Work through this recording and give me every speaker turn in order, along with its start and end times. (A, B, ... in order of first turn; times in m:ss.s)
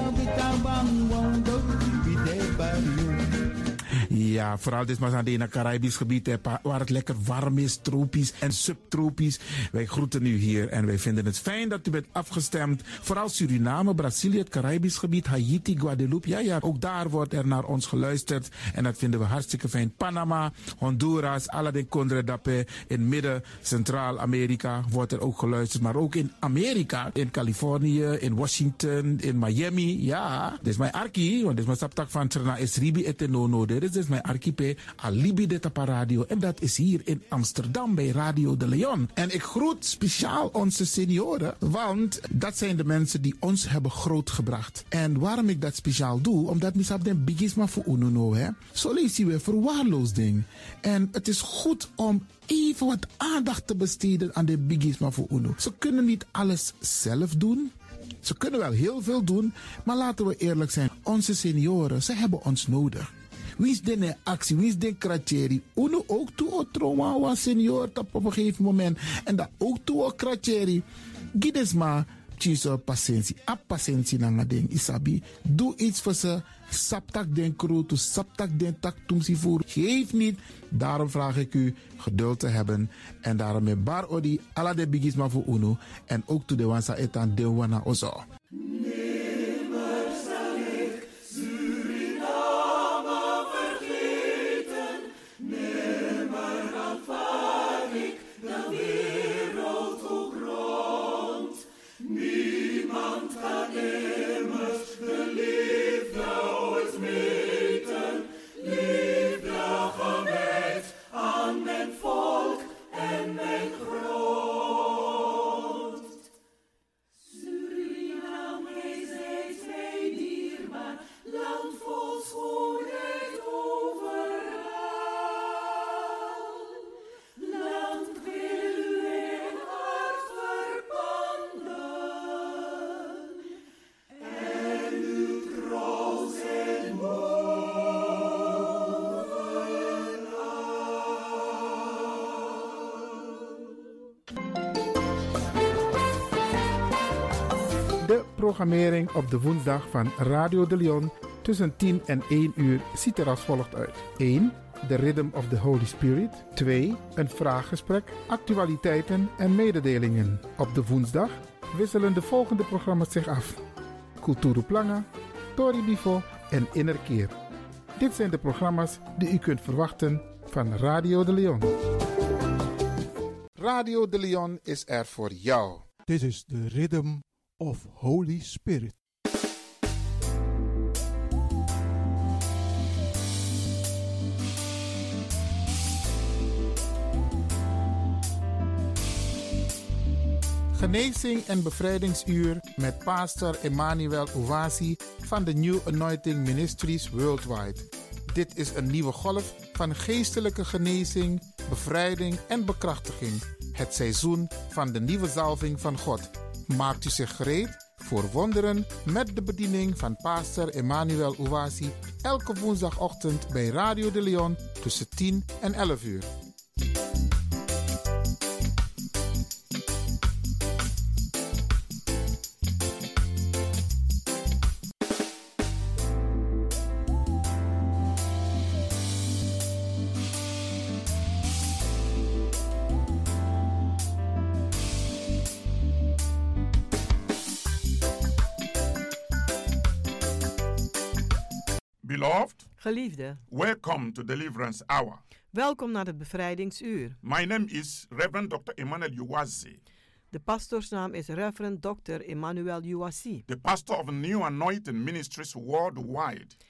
0:04.1-1:28.2 A
2:28.0-2:43.6 A
2:44.2-2:47.4 A
2:48.0-2:51.8 A
2:53.6-2:55.8 A
2:56.1-2:59.0 B
3:10.7-3:36.3 A
4:02.0-4:02.6 C
4:02.8-4:03.4 D
4:03.5-4:05.2 C
4:05.5-4:07.2 D
4:07.2-4:09.8 C
4:10.3-4:13.4 D
4:13.5-4:16.5 C